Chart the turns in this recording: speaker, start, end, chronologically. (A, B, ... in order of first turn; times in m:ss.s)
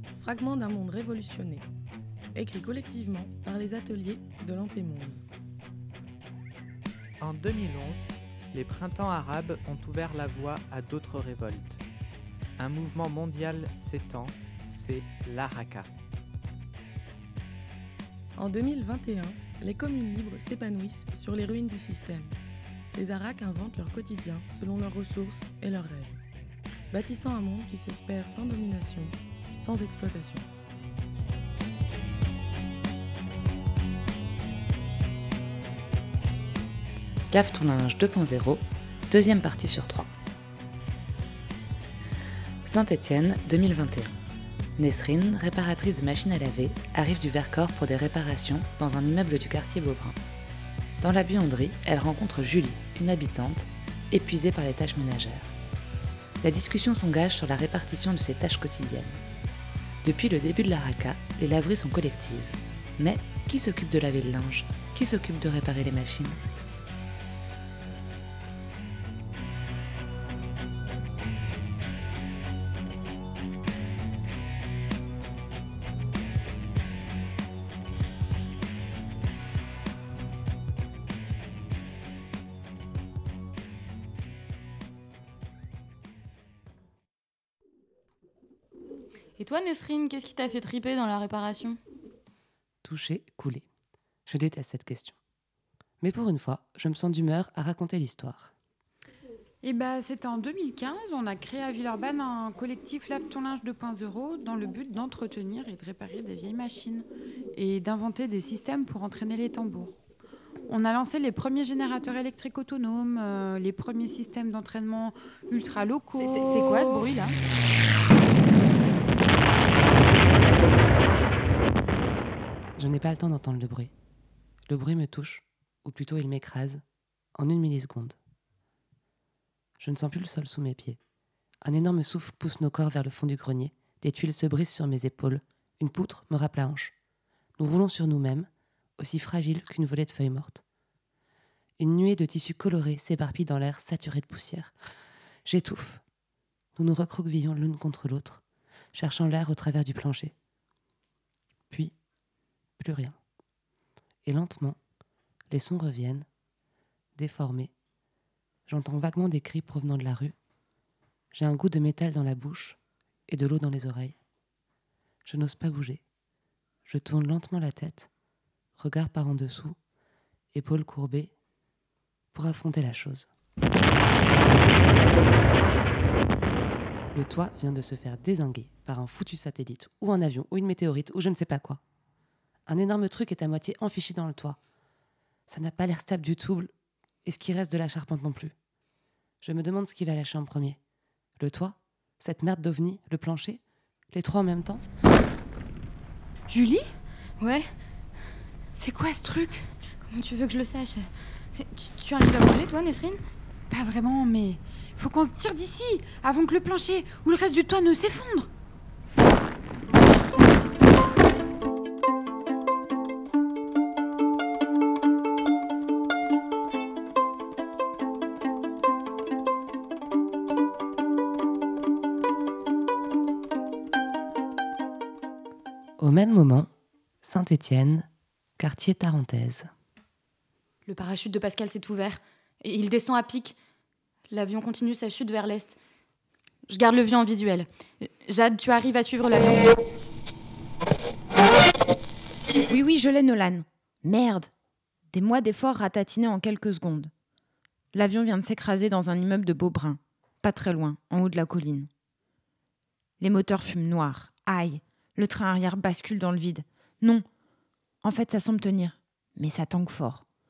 0:00.2-0:01.7 A
0:02.3-0:05.2 A
0:07.2-0:11.8 B
0:12.6-0:15.9 B
0:18.4-0:22.4 A
0:22.9-0:26.2 A
0:26.9-0:30.4 A
0:37.3-0:40.1 C
0:42.7-0:44.1 C
0:44.8-0:50.1 C
0:51.0-0:55.4 C
0:56.4-0:59.2 C
1:00.0-1:06.3 C
1:29.4-1:31.8 D
1:32.8-1:33.6 E
1:34.2-1:35.2 E
1:36.0-1:38.5 E
1:39.6-1:49.9 F
1:50.7-1:56.7 F
1:56.1-1:57.3 D
2:02.8-2:03.9 E
2:04.7-2:06.8 E
2:07.4-2:08.2 E
2:09.8-2:11.0 E
2:11.6-2:16.9 E
2:17.6-2:20.6 E
2:21.8-2:24.7 E
2:25.4-2:26.0 E
2:26.8-2:28.4 E
2:28.9-2:30.3 E
2:32.8-2:33.2 E
2:34.2-2:34.8 E
2:35.5-2:36.2 E
2:37.2-2:37.7 E
2:38.7-2:40.3 E
2:41.3-2:44.2 E
2:45.2-2:46.0 E
2:46.9-2:48.1 E
2:48.8-2:49.8 E
2:50.5-2:51.3 E
2:52.3-2:53.3 E
2:57.1-3:01.8 E
3:02.7-3:04.6 E
3:05.5-3:06.7 E
3:07.2-3:08.5 E
3:09.4-3:10.8 E
3:11.4-3:13.6 E
3:14.1-3:14.8 E
3:16.5-3:16.9 F
3:17.4-3:17.7 D
3:18.7-3:19.6 F
3:20.0-3:23.2 D
3:23.7-3:28.5 F
3:46.0-3:46.7 E
3:47.2-3:48.1 E
3:48.6-3:49.7 E
3:50.8-3:53.6 D
3:54.3-3:55.8 D
3:56.7-3:59.7 D
4:02.7-4:04.5 G
4:05.1-4:07.1 G
4:07.9-4:11.9 G
4:13.2-4:17.2 G
4:18.0-4:20.2 G